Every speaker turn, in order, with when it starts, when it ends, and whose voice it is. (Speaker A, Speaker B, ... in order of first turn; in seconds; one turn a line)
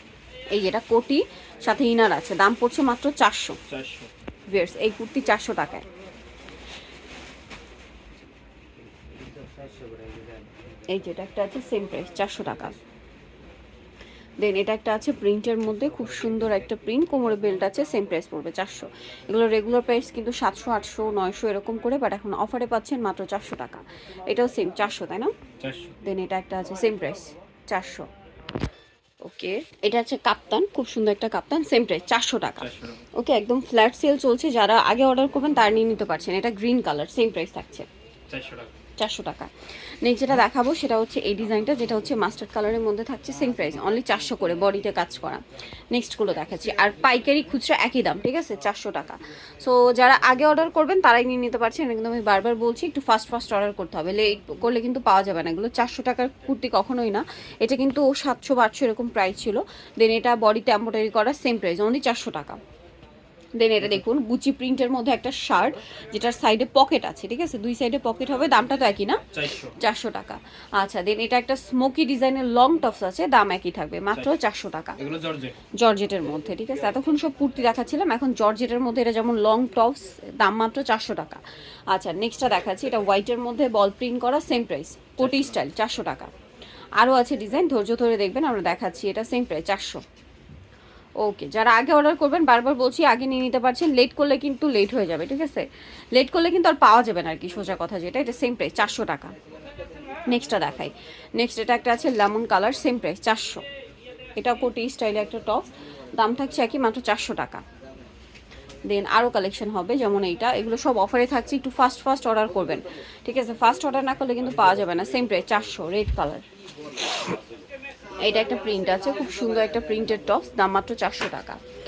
Speaker A: 0.5-3.6
Speaker B: 3.7-4.1
Speaker A: 4.5-5.8
Speaker A: 10.9-12.8
Speaker A: 14.4-25.3
Speaker B: 25.6-25.9
Speaker A: 26.0-28.1
Speaker A: 29.2-37.9
Speaker B: 32.6-33.0
Speaker B: 38.3-38.7
Speaker A: 39.0-39.5
Speaker A: 40.0-62.6
Speaker A: 63.6-69.2
Speaker B: 69.3-69.8
Speaker A: 69.8-75.0
Speaker B: 75.0-75.6
Speaker A: 75.8-86.3
Speaker B: 85.2-85.5
Speaker A: 87.0-90.0
Speaker A: 91.2-99.3
Speaker A: 100.3-103.6
Speaker A: 104.4-107.6
Speaker A: 108.9-116.4
Speaker A: 117.0-117.3
Speaker A: 118.2-121.6